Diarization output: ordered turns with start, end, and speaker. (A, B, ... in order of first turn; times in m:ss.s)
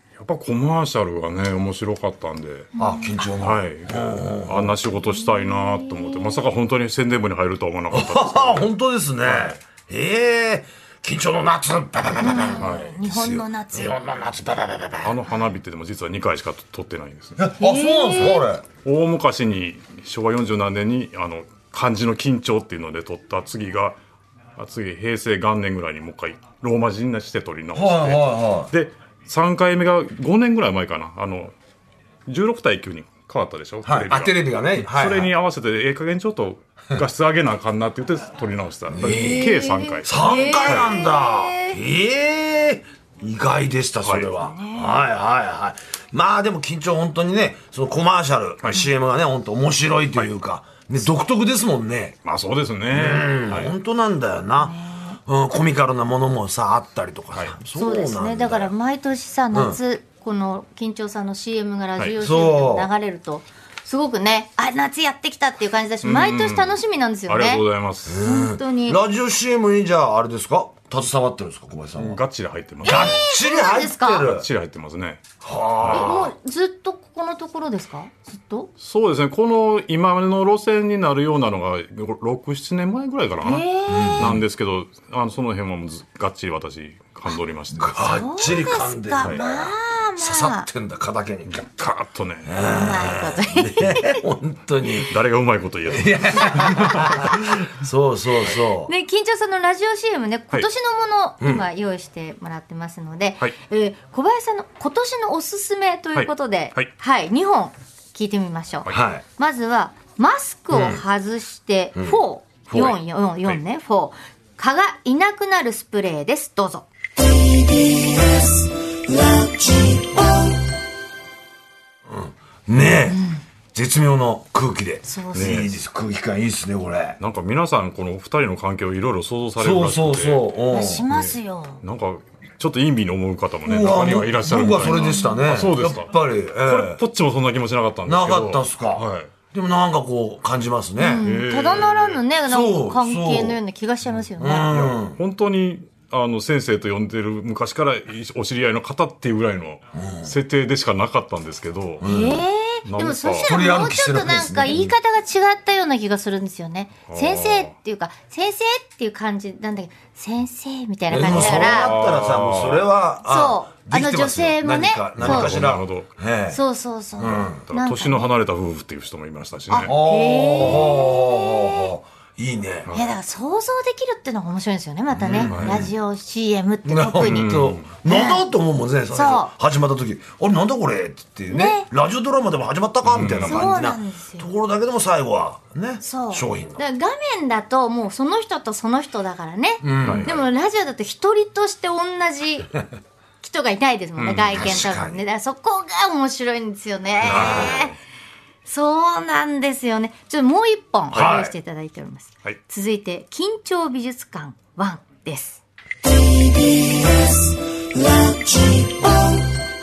0:00.2-0:02.7 A
0:02.8-0:03.1 B
0:02.8-0:04.8 C
0:03.4-0:08.7 A
0:05.2-0:06.5 B
0:07.9-0:15.2 C
0:09.2-0:09.6 A
0:12.2-0:14.0 B
0:12.6-0:13.0 A
0:15.0-0:17.4 A
0:17.4-0:18.7 C
0:17.6-0:18.5 B
0:18.8-0:24.0 A
0:24.6-0:31.6 A
0:27.7-0:28.7 C
0:32.3-0:40.1 A
0:33.8-0:35.3 C
0:38.9-0:39.5 C
0:39.0-0:41.8 B
0:40.0-0:52.2 C
0:44.0-0:44.3 A
0:44.4-0:45.0 B
0:52.2-0:53.7 A
0:52.9-0:58.7 C
0:54.6-0:55.2 B
0:57.7-1:07.6 B
0:59.5-0:59.8 C
1:02.2-1:02.9 C
1:06.0-1:08.2 A
1:08.1-1:12.2 C
1:08.2-1:09.0 B
1:11.9-1:13.2 A
1:12.8-1:14.5 C
1:12.8-1:14.3 B
1:14.2-1:15.2 A
1:15.4-1:16.3 C
1:15.8-1:16.1 A
1:15.9-1:18.7 B
1:18.8-1:28.2 A
1:23.4-1:24.3 B
1:23.9-1:24.4 C
1:27.8-1:31.6 C
1:28.0-1:30.7 B
1:31.5-1:32.5 A
1:32.4-1:35.2 C
1:32.6-1:34.2 B
1:35.0-1:37.6 A
1:35.9-1:38.9 C
1:38.8-1:56.9 B
1:46.2-1:46.9 A
1:48.9-1:49.2 C
1:50.7-1:51.0 C
1:52.7-1:53.0 C
2:02.1-2:03.2 C
2:03.1-2:03.4 B
2:03.7-2:07.2 C
2:05.0-2:05.7 B
2:05.3-2:05.8 A
2:07.2-2:10.5 A
2:09.6-2:11.1 C
2:10.7-2:11.8 B
2:11.1-2:19.3 A
2:13.6-2:17.0 C
2:14.8-2:15.4 B
2:18.0-2:21.2 C
2:21.0-2:25.0 B
2:21.2-2:22.2 A
2:22.5-2:23.6 C
2:24.4-2:25.2 C
2:25.1-2:32.0 A
2:29.9-2:30.4 C
2:32.0-2:32.4 C
2:32.0-2:42.0 B
2:32.8-2:33.5 A
2:33.4-2:34.9 C
2:37.1-2:37.7 A
2:41.1-2:46.6 C
2:41.1-2:42.9 A
2:43.2-2:45.6 B
2:45.2-2:46.1 A
2:46.5-2:48.3 B
2:47.2-2:47.6 C
2:47.7-2:50.0 A
2:49.7-2:51.9 B
2:49.8-2:52.9 C
2:50.6-2:51.0 A
2:52.9-2:57.5 B
2:55.1-2:55.9 C
2:55.3-2:55.9 A
2:56.8-3:06.8 C
2:57.2-2:57.8 A
2:58.0-2:58.5 B
2:59.1-2:59.5 B
3:01.5-3:01.9 B
3:03.0-3:03.7 A
3:03.5-3:04.5 B
3:06.0-3:12.7 B
3:09.8-3:10.4 C
3:10.0-3:10.4 A
3:13.4-3:17.9 B
3:14.2-3:14.7 A
3:14.5-3:15.2 C
3:17.2-3:17.9 C
3:17.2-3:18.0 A
3:18.7-3:25.6 B
3:21.1-3:21.5 C